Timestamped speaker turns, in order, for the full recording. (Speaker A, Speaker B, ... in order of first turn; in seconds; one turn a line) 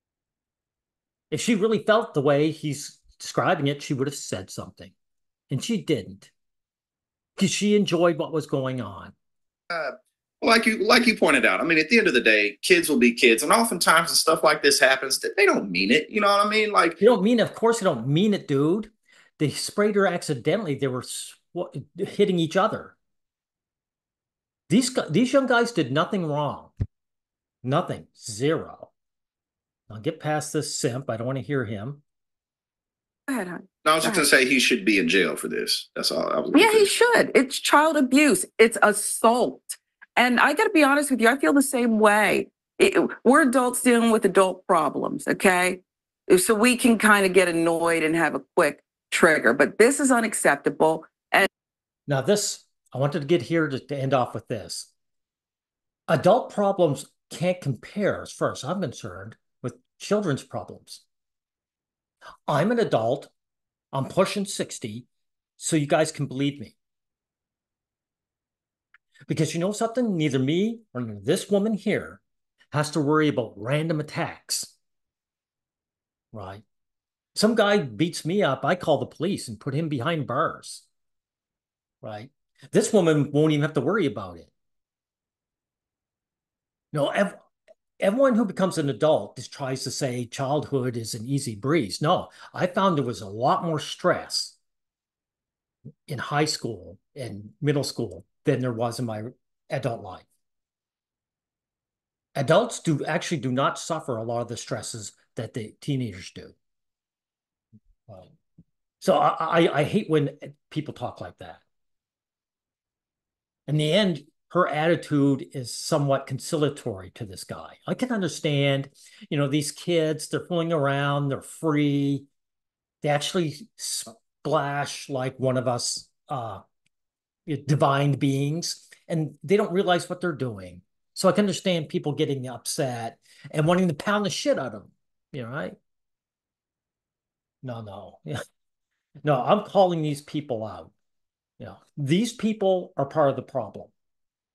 Speaker A: 1.3-4.9
Speaker A: 5.5-6.3
Speaker A: 7.4-9.1
Speaker B: 9.7-17.0
Speaker A: 17.0-22.9
Speaker A: 24.7-26.7
Speaker A: 27.6-28.9
Speaker A: 29.9-32.0
Speaker C: 33.3-34.2
Speaker B: 33.8-36.9
Speaker C: 36.5-51.5
Speaker A: 52.1-54.9
Speaker A: 56.1-61.0
Speaker A: 62.5-63.3
Speaker A: 63.9-65.1
Speaker A: 65.6-66.8
Speaker A: 69.3-72.2
Speaker A: 72.7-74.7
Speaker A: 76.3-76.6
Speaker A: 77.3-80.9
Speaker A: 82.0-84.5
Speaker A: 86.9-87.4
Speaker A: 88.0-94.5
Speaker A: 96.1-100.3
Speaker A: 102.3-106.5
Speaker A: 108.1-108.3
Speaker A: 109.0-111.6
Speaker A: 113.7-122.3
Speaker A: 123.0-126.6
Speaker A: 127.5-135.8
Speaker A: 137.6-138.4
Speaker A: 139.2-140.9
Speaker A: 141.6-143.9